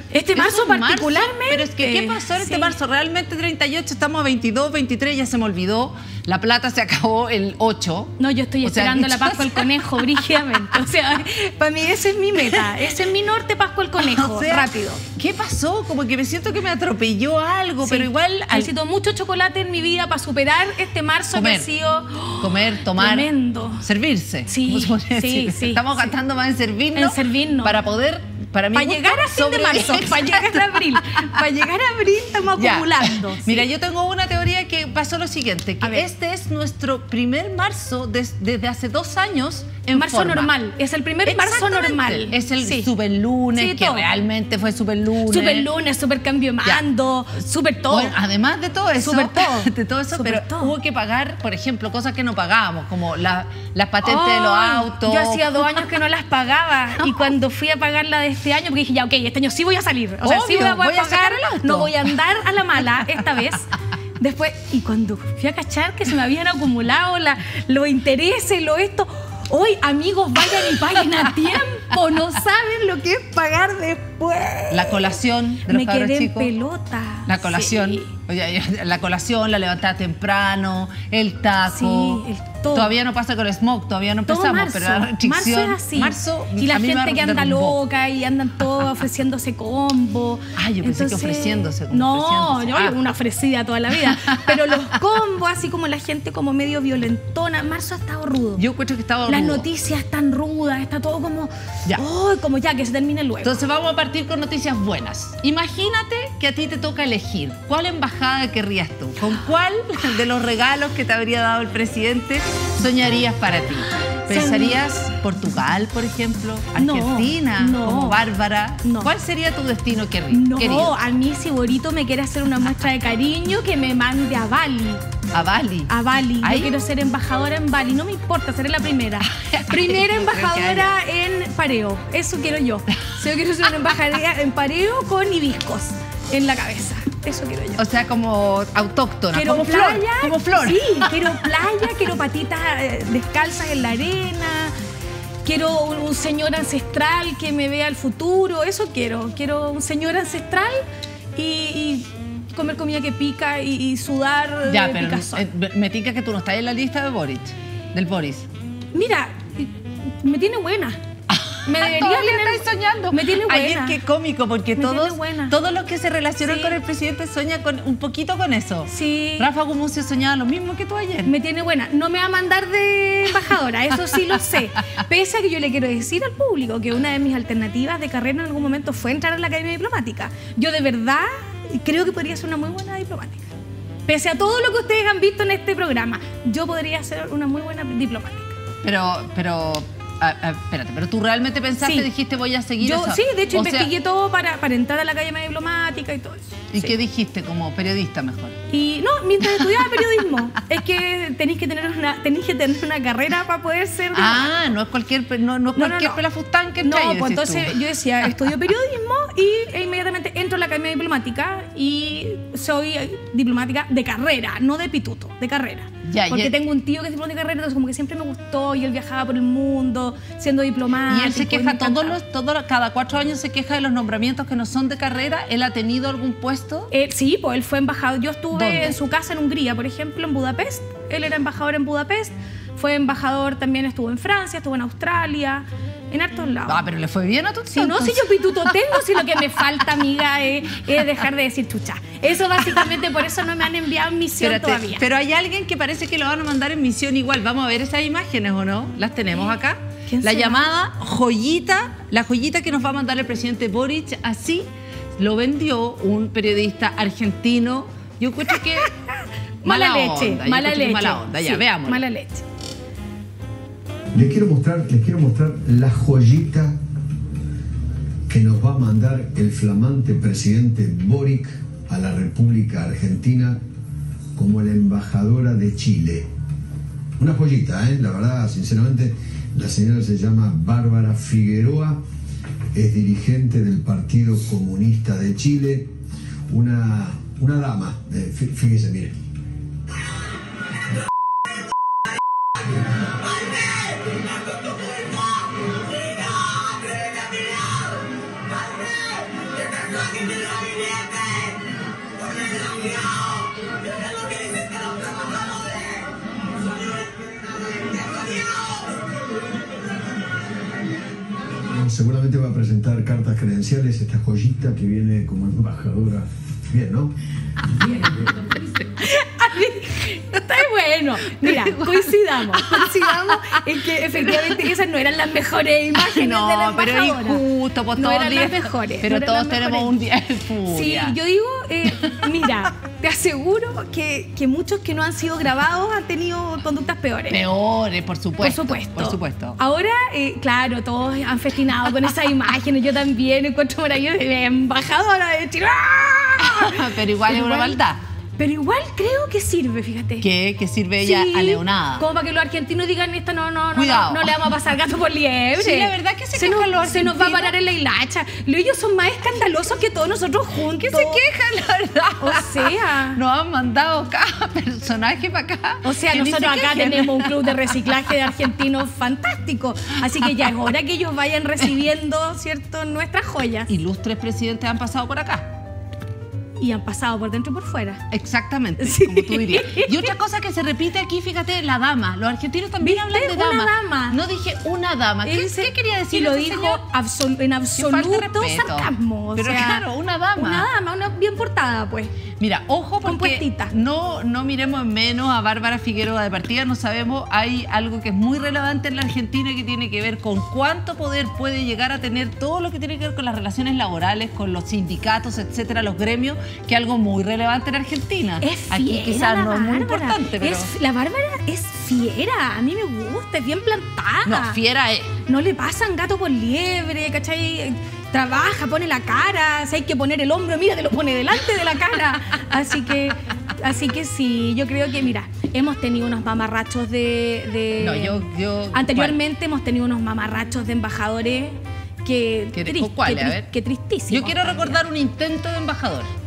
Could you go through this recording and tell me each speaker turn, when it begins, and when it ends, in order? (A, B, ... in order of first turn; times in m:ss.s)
0:00.1-0:02.7 A
0:00.3-0:10.6 B
0:08.2-0:15.0 A
0:12.4-0:12.8 B
0:14.0-0:18.7 B
0:17.8-0:23.8 A
0:21.3-0:21.7 B
0:22.4-0:23.3 B
0:23.8-0:31.4 B
0:24.5-0:26.1 A
0:26.9-0:27.8 A
0:28.7-0:33.7 A
0:32.6-0:40.5 B
0:39.9-0:42.9 A
0:41.2-0:45.7 B
0:43.5-0:44.0 A
0:45.3-0:48.1 A
0:47.9-0:55.9 B
0:49.0-0:50.7 A
0:54.0-1:18.1 A
0:57.0-0:57.3 B
1:00.2-1:02.1 B
1:14.7-1:16.5 B
1:17.2-1:27.8 B
1:21.6-1:22.9 A
1:24.3-1:38.6 A
1:30.6-1:33.0 B
1:34.0-1:34.9 B
1:38.6-1:39.6 B
1:39.3-1:43.5 A
1:43.4-2:00.9 B
1:54.3-1:54.8 A
1:56.8-1:58.2 A
1:58.8-1:59.1 A
2:00.3-2:05.0 A
2:05.3-2:06.8 B
2:05.9-2:17.8 A
2:09.3-2:10.9 B
2:17.8-2:21.3 B
2:19.3-2:24.7 A
2:25.4-2:30.8 A
2:31.4-2:35.4 A
2:34.7-2:38.5 B
2:38.9-2:41.0 A
2:41.3-2:51.3 B
2:41.6-2:44.0 A
2:44.8-2:45.6 A
2:46.4-2:46.8 A
2:48.9-2:49.4 A
2:51.2-3:03.5 A
3:04.1-3:08.6 A
3:08.8-3:13.9 B
3:11.8-3:12.1 A
3:12.8-3:17.0 A
3:16.7-3:18.6 B
3:18.7-3:24.7 A
3:19.4-3:20.0 B
3:24.1-3:27.8 B
3:25.7-3:26.2 A
3:26.8-3:42.2 A
3:36.0-3:36.5 B
3:41.1-3:46.9 B
3:46.9-3:56.8 A
3:48.5-3:49.0 B
3:56.7-3:58.8 B
3:57.7-4:05.0 A
4:04.4-4:18.9 B
4:10.1-4:10.6 A
4:19.6-4:22.4 A
4:19.6-4:22.0 B
4:24.1-4:26.8 C
4:28.3-4:33.6 C
4:34.3-4:36.3 C
4:37.2-4:42.0 C
4:42.7-4:45.9 C
4:46.5-4:49.2 C
5:11.7-5:17.1 C
5:17.9-5:18.2 C
5:19.0-5:27.4 A
5:21.4-5:24.7 B
5:25.9-5:31.2 B
5:28.0-5:29.9 A
5:30.7-5:37.4 A
5:37.3-5:39.6 B
5:38.4-5:47.8 A
5:46.4-5:48.0 B
5:48.4-5:50.2 A
5:50.2-5:52.0 B
5:51.0-6:01.2 A
5:53.7-5:54.5 B
5:55.6-5:57.5 B
6:00.8-6:07.7 B
6:02.2-6:03.2 A
6:05.8-6:13.7 A
6:13.7-6:15.5 B
6:16.6-6:18.0 A
6:18.1-6:26.8 B
6:18.8-6:20.1 A
6:22.8-6:24.2 A
6:25.2-6:29.8 A
6:27.8-6:30.7 B
6:30.4-6:32.1 A
6:32.4-6:50.7 B
6:33.0-6:33.7 A
6:48.4-6:54.6 A
6:54.2-6:55.1 B
6:55.3-7:08.2 A
7:07.8-7:09.2 B
7:08.7-7:14.8 A
7:12.5-7:13.5 B
7:14.1-7:16.1 B